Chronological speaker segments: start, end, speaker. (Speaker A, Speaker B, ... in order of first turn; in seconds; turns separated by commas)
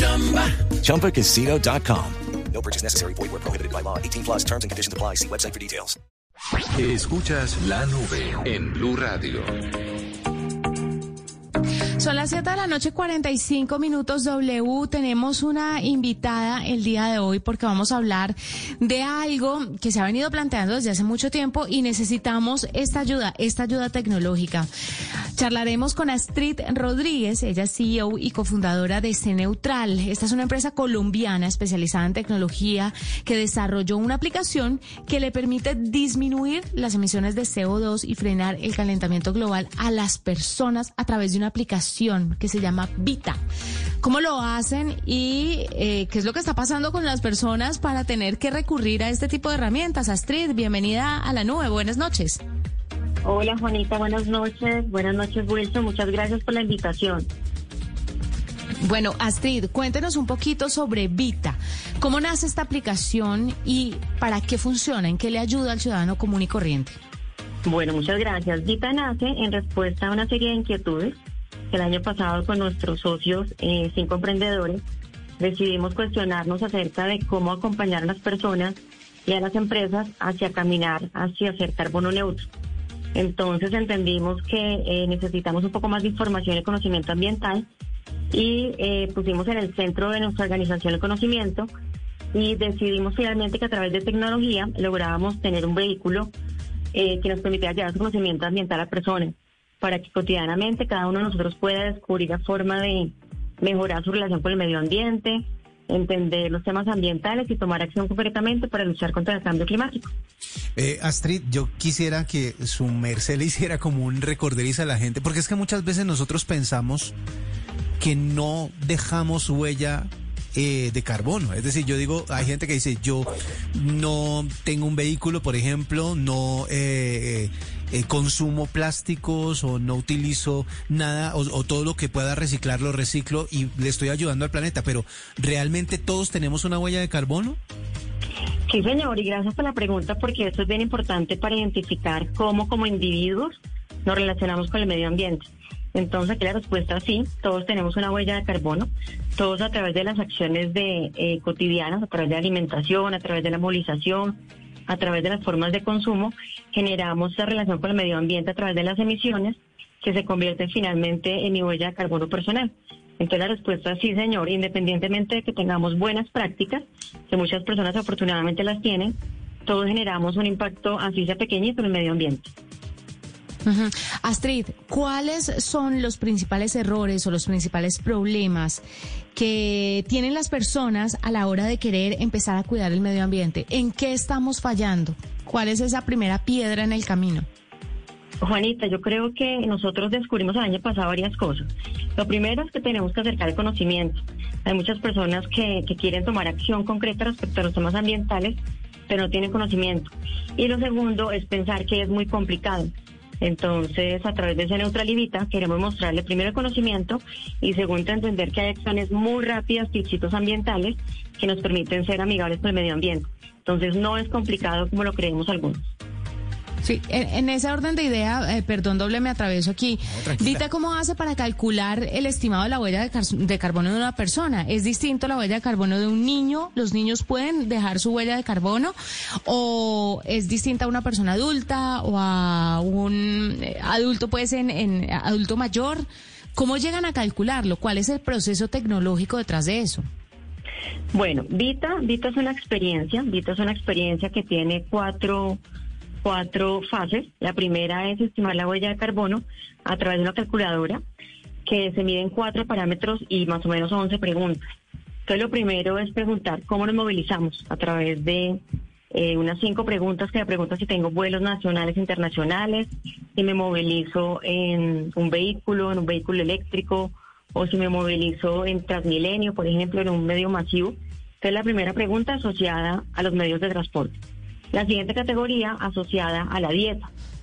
Speaker A: 0.6-6.0, Speaker B: 6.8-9.5, Speaker C: 12.0-24.7, Speaker C: 25.3-43.4, Speaker C: 44.0-52.4, Speaker D: 53.2-57.3, Speaker C: 58.8-67.0, Speaker D: 67.6-71.2, Speaker D: 71.7-74.8, Speaker D: 75.4-82.5, Speaker D: 83.1-87.7, Speaker D: 88.3-91.7, Speaker D: 92.3-96.3, Speaker D: 96.9-110.1, Speaker E: 110.8-117.1, Speaker E: 118.0-137.6, Speaker D: 138.7-169.1, Speaker D: 169.7-172.5, Speaker C: 173.7-178.8, Speaker C: 179.3-187.5, Speaker D: 188.4-198.6, Speaker D: 199.1-202.9, Speaker D: 203.4-215.9, Speaker C: 216.8-236.0, Speaker E: 220.1-220.6, Speaker C: 236.5-240.0, Speaker D: 241.1-245.6, Speaker D: 246.2-251.0, Speaker D: 251.7-254.6, Speaker D: 255.3-258.6, Speaker D: 259.1-274.2, Speaker D: 274.7-277.1